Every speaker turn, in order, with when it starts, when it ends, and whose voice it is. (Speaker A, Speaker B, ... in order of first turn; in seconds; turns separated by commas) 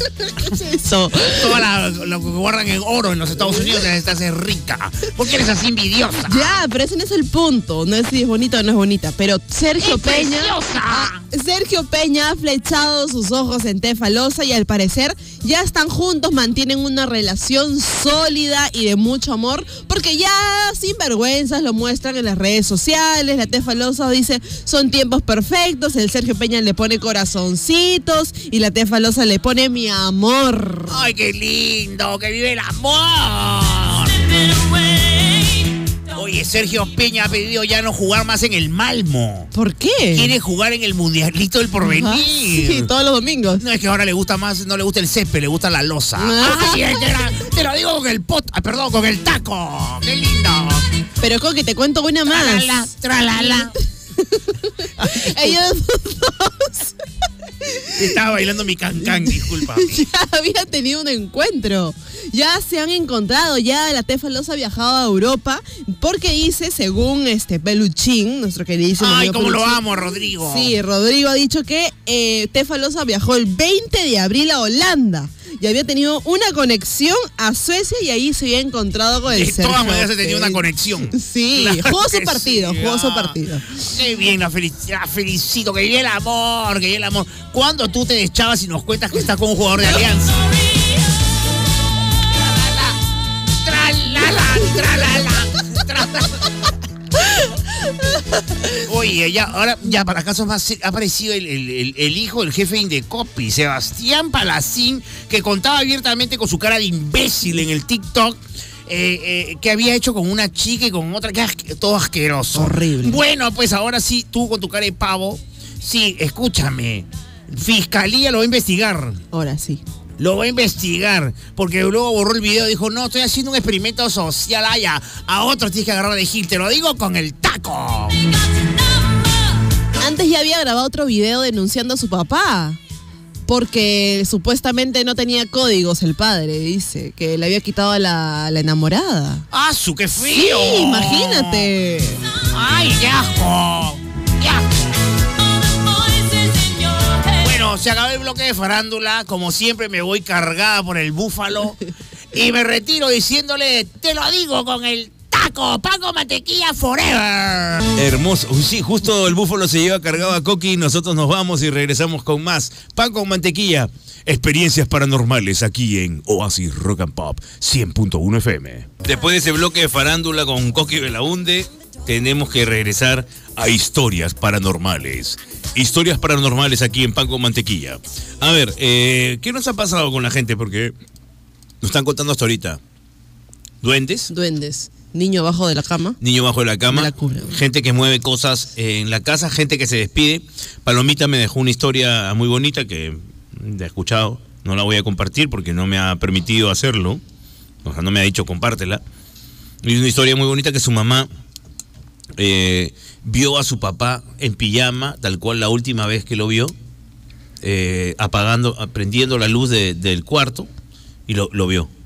Speaker A: 0.4-1.6, Speaker B: 1.2-6.6, Speaker A: 6.2-31.0, Speaker B: 9.8-11.2, Speaker B: 30.9-34.3, Speaker B: 36.1-39.5, Speaker A: 39.5-40.3, Speaker B: 40.1-42.9, Speaker A: 41.8-43.6, Speaker B: 43.6-50.9, Speaker A: 46.2-47.0, Speaker A: 51.2-52.9, Speaker B: 52.3-53.7, Speaker A: 53.4-53.7, Speaker A: 54.2-56.9, Speaker B: 55.0-55.6, Speaker B: 57.9-60.0, Speaker A: 59.0-69.8, Speaker B: 69.0-70.7, Speaker A: 70.4-83.8, Speaker B: 79.3-90.4, Speaker B: 92.4-93.0, Speaker B: 93.6-96.4, Speaker B: 98.8-119.2, Speaker A: 112.5-113.2, Speaker A: 119.3-119.8, Speaker B: 120.2-128.2, Speaker A: 130.0-132.8, Speaker A: 133.5-139.4, Speaker B: 139.5-141.7, Speaker A: 140.2-142.2, Speaker B: 142.5-144.7, Speaker B: 147.2-151.8, Speaker B: 152.3-157.8, Speaker C: 157.9-180.9, Speaker C: 181.8-182.8, Speaker C: 183.8-184.3, Speaker A: 184.3-186.2, Speaker C: 186.2-197.2, Speaker A: 186.9-187.6, Speaker C: 197.8-199.0, Speaker C: 199.8-201.3, Speaker C: 202.4-206.7, Speaker C: 207.6-210.7, Speaker C: 211.3-211.9